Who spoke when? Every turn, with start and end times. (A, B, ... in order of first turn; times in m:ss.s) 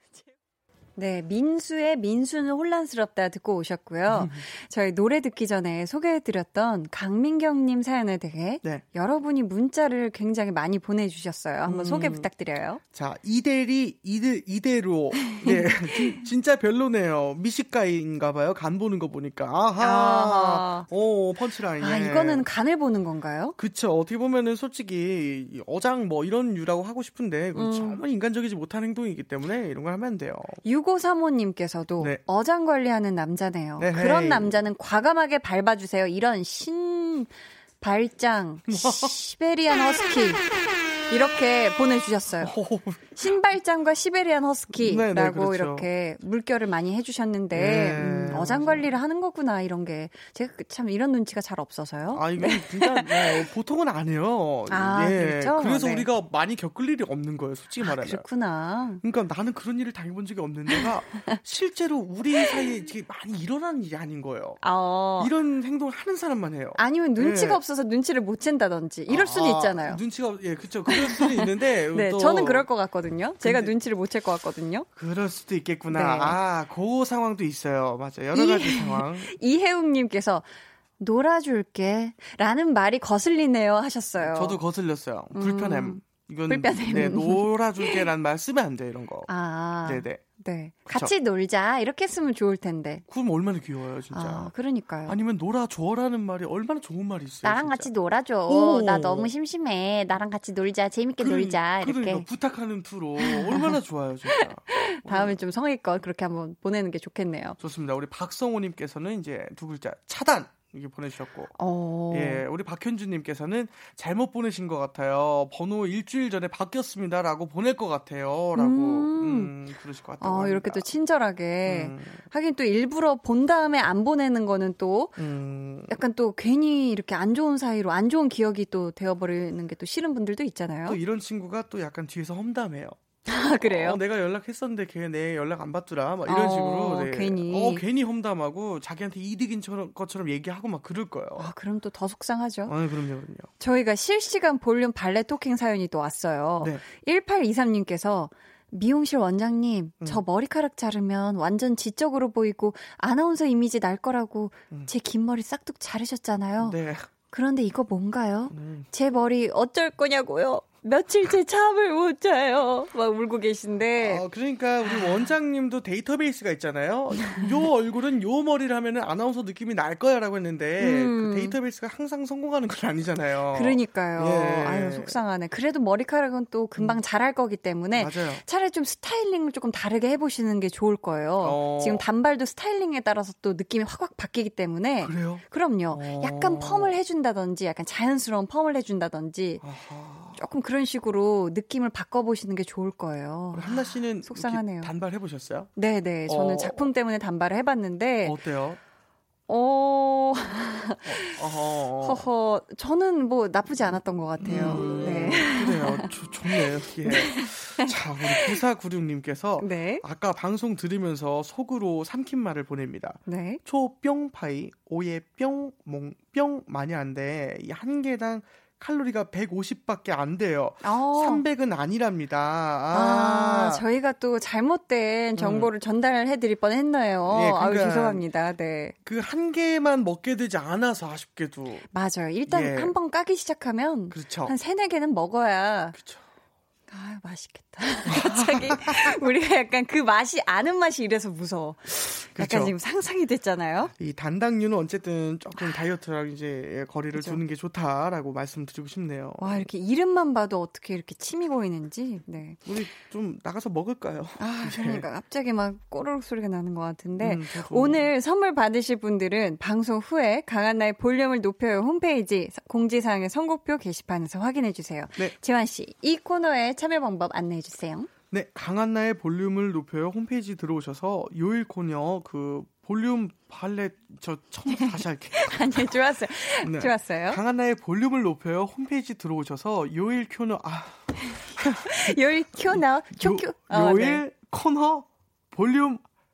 0:01.0-0:12.8 A
0:04.1-0:04.4 B
0:11.6-0:12.3 B
0:12.9-0:22.4 B
0:15.4-0:16.2 A
0:19.8-0:20.9 A
0:21.8-0:23.6 A
0:23.6-0:30.6 B
0:27.6-0:28.0 A
0:30.6-0:40.4 A
0:33.8-0:34.5 B
0:38.7-0:39.2 B
0:41.1-0:42.5 A
0:42.4-0:43.1 B
0:43.2-0:53.4 A
0:44.8-0:45.9 B
0:47.5-0:48.9 B
0:52.1-0:58.2 B
0:54.7-0:56.1 A
0:57.8-0:59.0 A
0:59.0-1:04.6 B
1:04.6-1:05.3 A
1:05.2-1:07.6 B
1:06.8-1:10.0 A
1:09.1-1:12.7 B
1:10.9-1:14.9 A
1:13.4-1:13.7 B
1:15.0-1:19.3 B
1:15.9-1:16.4 A
1:18.3-1:20.5 A
1:21.0-1:24.6 A
1:24.2-1:29.3 B
1:25.4-1:28.1 A
1:29.3-1:33.0 A
1:29.8-1:30.2 B
1:33.1-1:34.5 B
1:34.1-1:35.2 A
1:35.1-1:37.9 B
1:37.5-1:42.1 C
1:38.5-1:39.3 B
1:38.6-1:39.5 A
1:41.2-1:42.2 A
1:41.2-1:45.4 B
1:43.2-1:47.6 A
1:47.6-1:51.5 B
1:51.6-1:52.4 A
1:52.1-2:00.9 B
1:58.6-1:59.5 A
2:00.2-2:05.2 A
2:01.7-2:02.2 B
2:05.2-2:06.0 B
2:05.9-2:11.0 A
2:10.9-2:21.5 B
2:13.3-2:14.0 A
2:16.3-2:17.8 A
2:21.4-2:22.7 A
2:22.7-2:23.5 B
2:23.6-2:36.8 A
2:36.6-2:37.1 B
2:37.3-2:44.2 A
2:38.5-2:38.9 B
2:44.0-2:55.2 B
2:44.8-2:45.3 A
2:47.2-2:47.5 A
2:50.8-2:51.6 A
2:53.5-3:09.6 A
2:58.0-2:58.4 B
3:01.4-3:02.0 B
3:05.0-3:06.9 B
3:09.6-3:10.4 B
3:10.4-3:14.9 A
3:13.5-3:15.7 B
3:15.8-3:18.4 A
3:16.3-3:16.9 B
3:18.2-3:18.8 B
3:19.5-3:21.4 A
3:21.1-3:22.2 B
3:22.0-3:28.6 A
3:24.4-3:43.8 B
3:29.6-3:30.0 A
3:33.3-3:33.6 A
3:40.8-3:41.4 A
3:42.9-3:49.0 A
3:45.4-3:45.7 B
3:47.3-3:48.2 B
3:49.0-3:51.9 B
3:51.9-3:56.0 A
3:52.5-3:52.9 B
3:54.1-3:54.6 B
3:56.0-3:56.2 B
3:56.9-4:03.9 A
3:58.1-3:59.2 B
4:02.3-4:02.7 B
4:03.9-4:09.6 B
4:05.6-4:05.8 A
4:07.2-4:07.4 A
4:09.4-4:12.7 A
4:12.7-4:15.0 B
4:14.4-4:28.1 A
4:17.2-4:18.1 B
4:28.3-4:36.0 B
4:34.7-4:37.4 A
4:36.6-4:46.0 B
4:41.4-4:44.2 A